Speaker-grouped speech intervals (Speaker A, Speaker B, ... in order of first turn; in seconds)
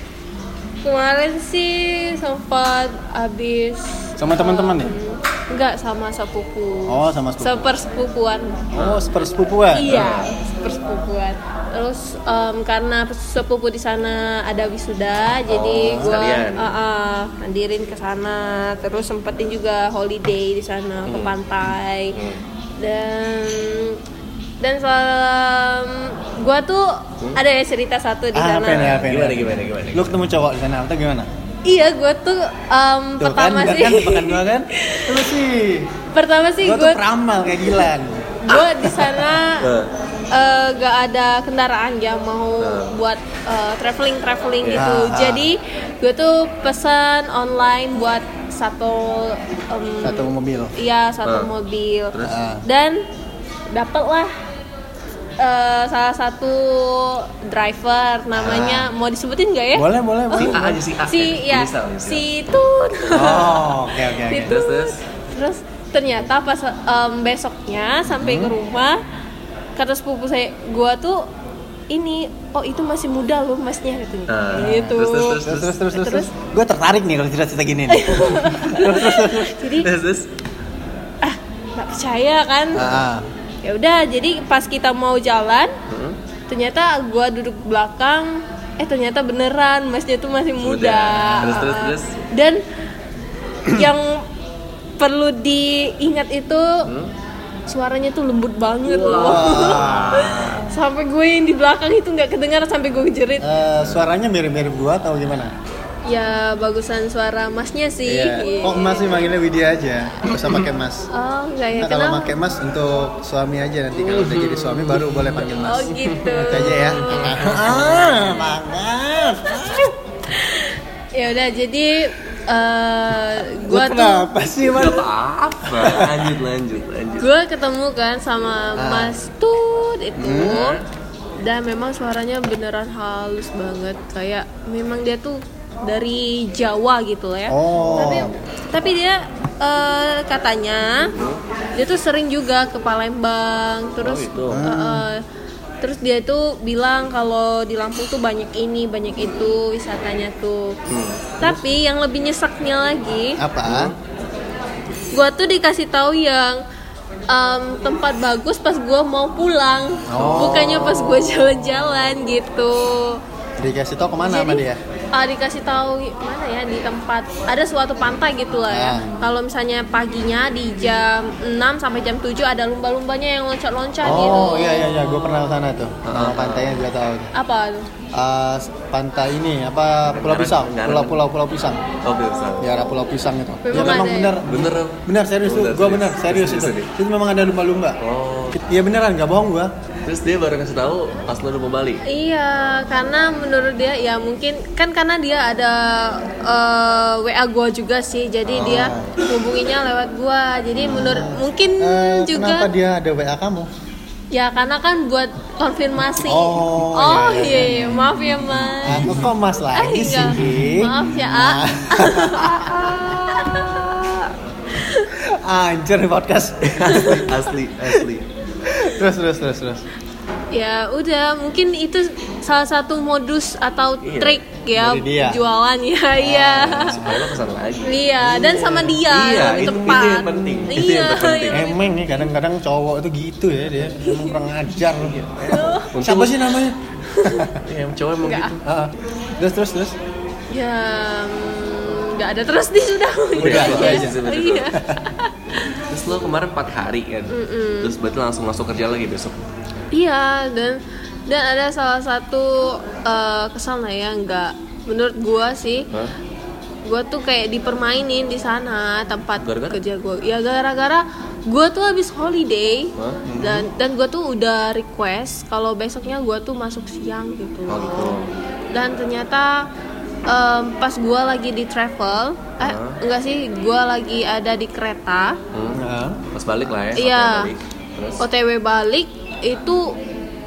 Speaker A: 0.8-8.6, 9.7-22.2, 22.8-24.0, 24.6-28.9, 31.6-35.2, 36.1-37.9, 38.4-39.7, 40.3-53.0, 53.7-54.3, 55.4-69.0, 69.8-71.3, 71.9-76.3, 77.9-79.9, 81.2-82.8, 83.6-85.7, 86.5-92.6, 93.7-94.2, 95.0-96.9, 97.7-103.5, 106.1-109.3, 111.1-112.3, 115.6-117.3, 120.3-124.3, 127.2-130.8, 131.4-141.1, 141.8-145.2, 145.8-150.8, 151.4-153.4, 155.1-156.6, 157.3-163.2, 164.2-175.6, 177.3-177.9, 183.6-184.4, 192.0-202.7, 204.3-215.1, 216.8-217.3, 220.5-227.2, 227.8-231.8, 234.0-234.4, 235.5-235.9, 237.1-237.5, 238.2-238.5, 240.5-245.8, 247.3-247.9, 249.9-255.9, 256.9-268.2, 268.7-269.6, 270.3-275.4, 276.9-277.5, 278.2-279.9
Speaker B: 4.2-4.9, 6.9-7.7, 8.7-10.0, 15.9-16.2, 28.3-31.3, 33.2-35.9, 36.6-39.3, 44.8-45.5, 50.0-50.7, 52.2-52.6, 58.3-58.9, 59.8-60.6, 63.1-64.5, 68.1-68.5, 74.5-79.6, 82.7-83.3, 99.1-100.6, 103.4-105.5, 108.0-111.1, 111.8-119.9, 123.7-125.1, 125.7-126.3, 128.8-129.1, 130.2-130.7, 137.5-138.3, 144.5-145.1, 153.4-153.9, 160.1-160.9, 163.6-164.8, 168.7-169.2, 174.0-177.3, 178.1-181.8, 182.6-188.0, 188.5-189.7, 198.6-199.1, 200.8-203.7, 206.2-213.1, 215.1-218.1, 218.7-219.8, 224.7-225.4, 226.2-227.2, 228.2-230.7, 231.5-237.6, 238.6-239.9, 243.4-244.2, 263.2-263.7, 275.7-276.2
Speaker C: 8.7-9.1, 9.8-10.3, 15.5-16.7, 21.1-21.4, 22.1-22.4, 28.6-30.1, 39.6-39.9, 42.6-42.9, 51.2-51.5, 60.4-62.2, 64.4-65.0, 74.3-75.8, 78.5-78.8, 79.7-80.3, 85.9-86.2, 90.6-92.1, 96.8-97.1, 98.8-100.7, 103.8-104.0, 110.3-110.6, 114.0-118.6, 124.6-127.3, 130.4-130.8, 137.8-138.4, 141.1-141.4, 144.0-144.7, 150.9-151.3, 153.6-154.0, 160.1-161.3, 176.0-176.8, 180.1-181.2, 182.0-182.7, 183.7-186.9, 188.0-188.6, 190.0-192.0, 198.5-198.9, 208.9-209.2, 210.3-210.7, 216.7-218.3, 224.0-224.4, 226.8-231.7, 234.9-236.6, 237.6-238.6, 243.4-244.7, 245.9-249.3, 259.4-259.8, 262.9-263.2, 267.7-268.3, 272.6-273.0, 275.5-278.2